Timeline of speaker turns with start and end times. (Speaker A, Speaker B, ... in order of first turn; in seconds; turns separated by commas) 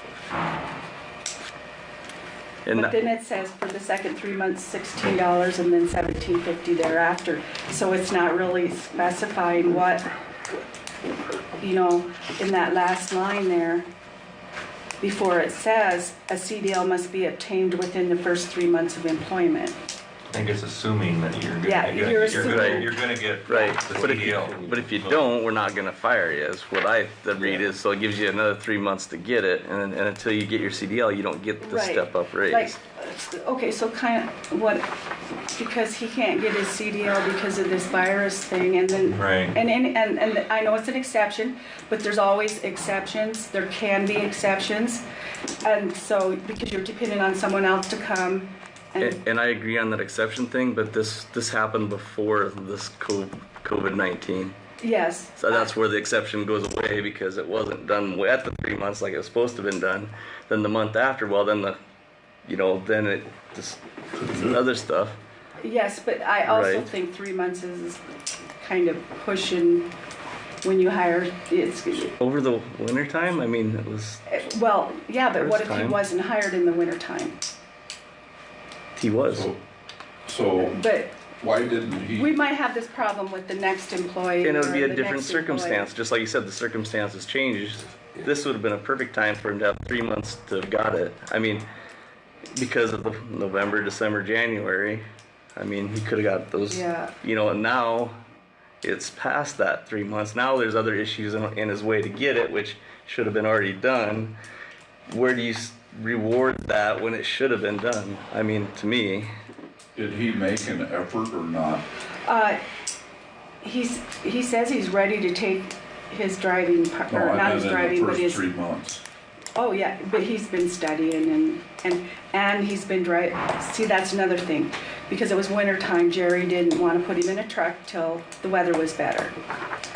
Speaker A: 2.7-3.0, Speaker B: 2.7-10.1, Speaker B: 11.6-13.9, Speaker B: 15.0-19.8, Speaker C: 20.3-25.1, Speaker B: 21.6-23.0, Speaker A: 22.3-22.9, Speaker A: 23.5-32.8, Speaker B: 31.6-34.9, Speaker B: 35.5-45.0, Speaker C: 39.1-39.6, Speaker B: 45.6-49.2, Speaker A: 49.0-54.5, Speaker B: 54.8-55.7, Speaker A: 55.4-61.8, Speaker A: 62.5-65.2, Speaker B: 65.6-68.0, Speaker A: 66.4-66.9, Speaker B: 68.6-69.9, Speaker B: 70.6-72.1, Speaker A: 72.2-74.3, Speaker B: 74.3-77.4, Speaker A: 75.3-76.0, Speaker A: 79.0-79.5, Speaker D: 79.3-79.6, Speaker D: 80.2-80.8, Speaker B: 80.6-81.3, Speaker D: 81.3-82.3, Speaker B: 82.1-85.9, Speaker A: 84.4-91.7, Speaker A: 92.5-95.0, Speaker A: 95.6-98.2, Speaker B: 96.7-97.2, Speaker A: 98.8-104.3, Speaker A: 105.1-109.3, Speaker D: 110.0-111.8, Speaker B: 112.2-112.6, Speaker B: 113.6-118.4, Speaker D: 117.1-119.0, Speaker B: 119.6-129.4